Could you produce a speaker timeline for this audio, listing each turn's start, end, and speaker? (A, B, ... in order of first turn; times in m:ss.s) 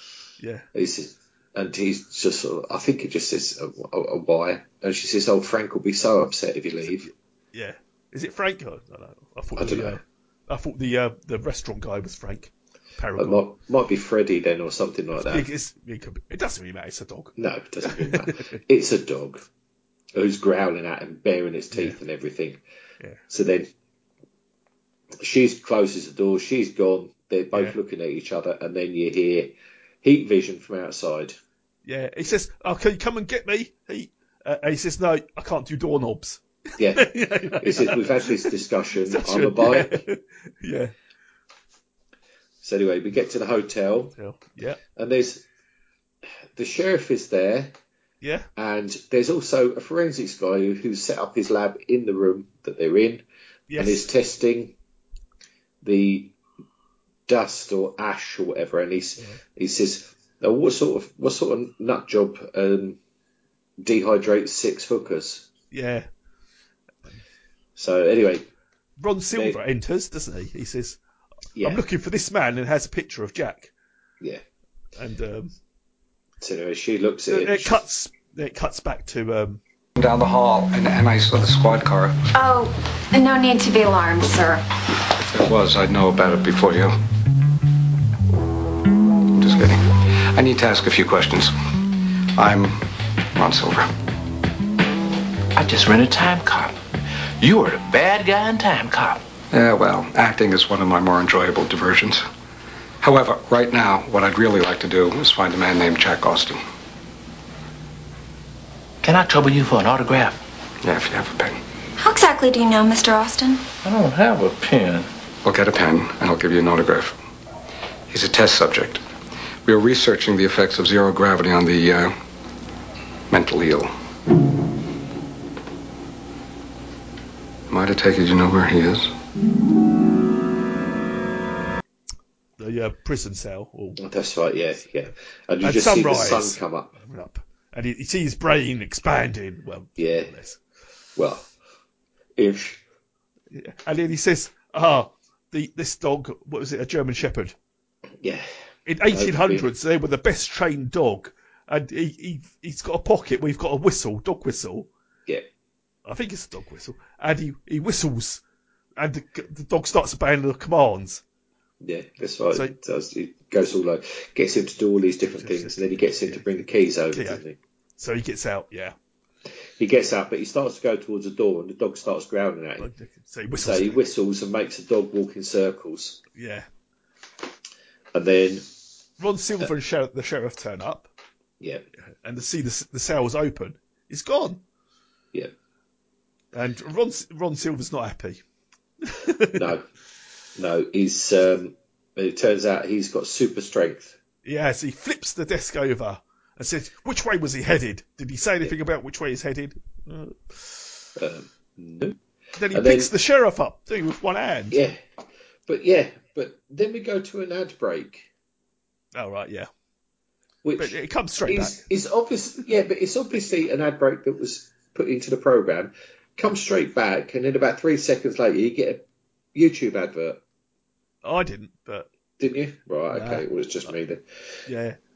0:00.4-0:00.6 A
0:00.7-0:07.1 B
0:07.0-0:13.4 A
0:09.6-0:10.0 B
0:13.2-0:15.4 B
0:15.2-0:18.5 A
0:17.4-0:19.4 B
0:20.1-0:22.6 B
0:23.3-0:23.7 B
0:25.2-0:31.4 B
0:31.8-0:38.4 A
0:36.8-0:40.0 B
0:39.1-0:40.9 A
0:42.6-0:44.1 B
0:44.2-0:44.8 A
0:45.0-0:45.4 B
0:46.6-0:47.7 B
0:48.2-0:48.5 A
0:48.6-0:53.2 B
0:53.7-0:54.1 A
0:53.8-0:54.7 B
0:55.8-0:56.3 B
0:57.3-1:03.0 B
1:03.8-1:05.5 B
1:05.7-1:06.1 A
1:07.8-1:08.5 B
1:09.0-1:11.0 A
1:09.3-1:09.6 B
1:11.6-1:11.8 B
1:11.6-1:13.7 A
1:15.0-1:15.5 A
1:16.4-1:17.8 B
1:17.3-1:19.6 A
1:20.0-1:22.2 C
1:22.3-1:24.6 D
1:25.2-1:27.0 C
1:29.3-1:31.5 C
1:32.4-1:33.9 C
1:35.5-1:36.8 E
1:37.4-1:39.2 E
1:39.5-1:42.2 C
1:43.0-1:46.6 C
1:49.0-1:50.4 E
1:50.8-1:51.6 C
1:52.0-1:53.6 D
1:53.8-1:55.0 E
1:55.4-1:57.2 C
1:58.1-1:59.0 C
1:59.6-2:02.1 C
2:03.3-2:03.9 C
2:07.7-2:09.1 C
2:12.6-2:14.0 A
2:14.0-2:16.9 B
2:15.6-2:20.6 A
2:20.0-2:20.3 B
2:21.2-2:21.5 B
2:22.4-2:22.8 B
2:23.5-2:27.5 A
2:28.2-2:28.5 B
2:28.8-2:34.9 A
2:29.1-2:29.7 B
2:36.0-2:38.4 A
2:39.0-2:41.2 A
2:41.8-2:47.6 B
2:45.3-2:47.4 A
2:48.0-2:48.9 A
2:49.8-2:52.9 B
2:52.8-2:54.0 A
2:53.6-2:56.2 B
2:56.4-2:56.7 A
2:58.1-2:58.6 B
2:59.2-3:01.1 A
3:02.2-3:04.6 A
3:06.5-3:08.4 A
3:09.0-3:09.7 A
3:09.6-3:09.8 B
3:10.6-3:14.2 B
3:14.4-3:20.5 A
3:21.2-3:22.2 B
3:22.6-3:24.9 A
3:22.7-3:23.1 B
3:24.7-3:25.0 B
3:25.7-3:28.3 B
3:29.1-3:29.7 A
3:30.6-3:39.0 B
3:30.8-3:31.8 A
3:39.5-3:40.4 B
3:41.2-3:42.1 A
3:42.4-3:44.2 B
3:43.1-3:43.9 A
3:44.7-3:45.0 A